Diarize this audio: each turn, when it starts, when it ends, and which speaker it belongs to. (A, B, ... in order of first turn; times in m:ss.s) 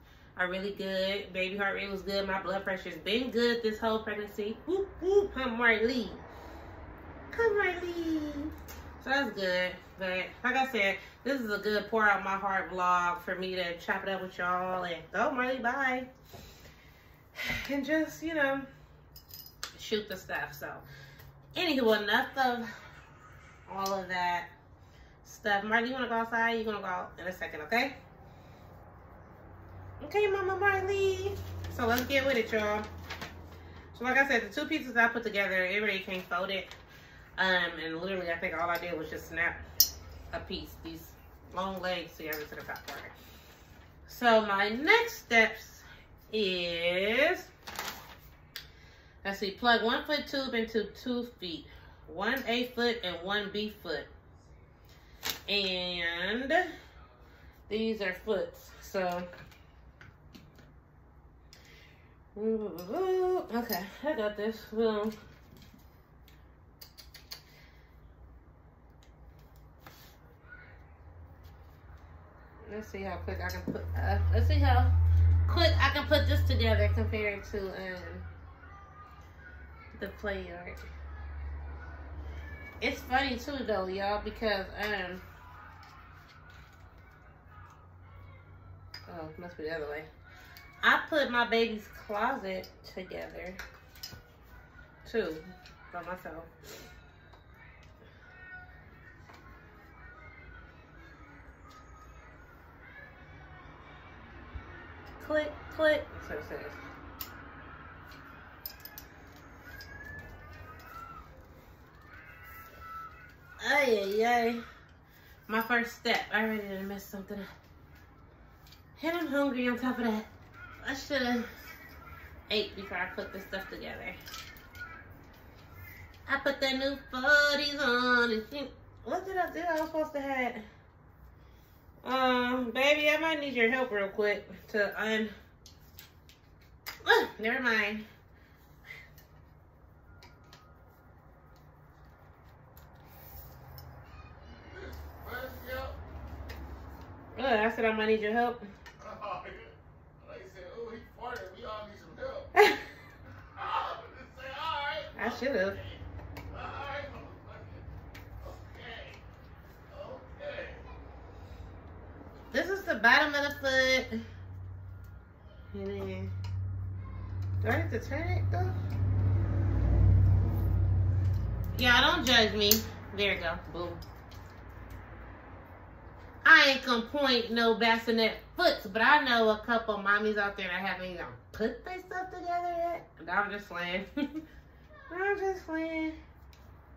0:00.4-0:06.2 A
0:07.3-0:16.1 A
0:17.3-0:18.7 A
0:19.8-0:20.8 A
0:21.5-0:22.7 A
0:23.7-0:24.5 A
0:25.2-0:28.0 A
0:30.0-0:32.9 A
0:33.9-0:36.7 A
0:37.4-0:39.6 A
0:40.3-0:43.1 A
0:44.1-0:47.5 A
0:49.2-0:54.1 A
0:55.5-0:56.7 A
0:57.7-0:59.3 A
1:02.3-1:05.2 A
1:12.6-1:14.9 A
1:15.5-1:18.2 A
1:19.9-1:20.8 A
1:22.8-1:25.2 A
1:29.1-1:30.1 A
1:30.8-1:33.6 A
1:35.0-1:36.5 A
1:45.2-1:46.8 A
1:53.6-1:54.6 A
1:55.5-1:57.5 A
1:59.0-2:00.3 A
2:00.8-2:01.5 A
2:02.5-2:04.2 A
2:06.3-2:10.6 A
2:12.0-2:15.3 A
2:17.0-2:18.0 A
2:24.4-2:26.0 B
2:27.3-2:28.7 A
2:29.0-2:32.5 B
2:32.6-2:32.8 A
2:33.5-2:37.9 B
2:35.2-2:35.8 A
2:38.4-2:39.2 B
2:39.9-2:40.9 B
2:42.5-2:44.2 A
2:45.7-2:46.3 A
2:47.6-2:48.7 A
2:51.7-2:54.0 A
2:56.4-3:04.4 A
3:05.1-3:06.2 A